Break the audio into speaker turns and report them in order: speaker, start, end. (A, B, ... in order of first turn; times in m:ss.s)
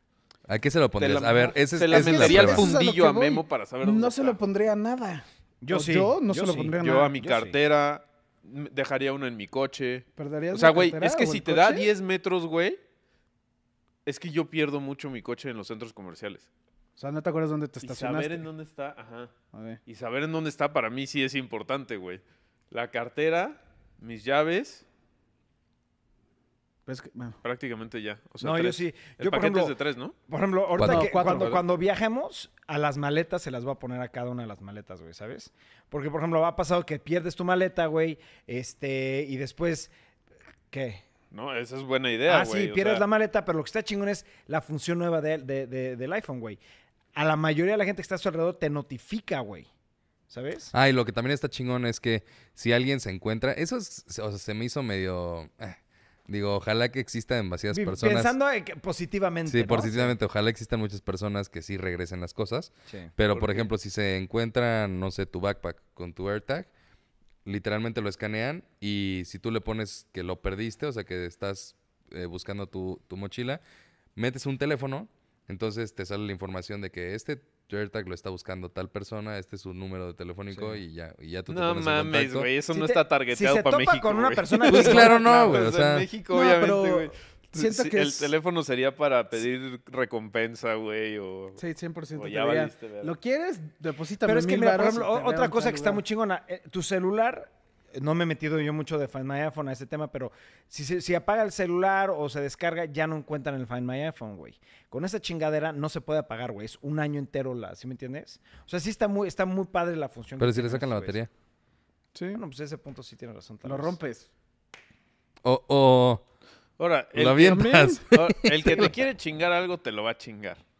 0:00.5-0:02.7 A
0:01.0-0:04.4 B
0:01.9-0:07.1 C
0:05.6-0:07.6 D
0:06.8-0:12.8 B
0:10.2-0:11.9 C
0:14.0-0:16.5 B
0:17.0-0:18.4 C
0:17.8-0:19.3 B
0:19.5-0:19.8 C
0:19.8-0:24.8 B
0:26.8-0:27.4 C
0:27.4-0:30.1 B
0:28.4-0:29.8 D
0:30.3-0:39.9 D
0:30.8-0:31.1 A
0:30.8-0:31.6 C
0:31.2-0:31.6 B
0:40.7-0:41.0 D
0:41.3-0:43.0 B
0:42.3-0:46.6 D
0:47.1-0:49.7 D
0:50.3-0:50.7 D
0:50.7-0:58.3 A
0:57.7-1:00.1 D
0:59.5-1:06.7 A
1:03.3-1:03.6 B
1:07.4-1:13.6 A
1:14.2-1:22.5 A
1:21.5-1:31.6 B
1:22.7-1:25.6 D
1:24.7-1:26.1 A
1:26.3-1:28.3 C
1:31.6-1:36.0 C
1:32.2-1:33.1 B
1:34.2-1:51.2 D
1:50.4-1:51.3 A
1:52.1-1:52.4 C
1:52.3-1:54.0 D
1:53.6-1:54.3 C
1:55.4-1:56.2 A
1:56.8-2:00.6 B
1:57.1-1:58.9 A
1:57.4-1:58.0 C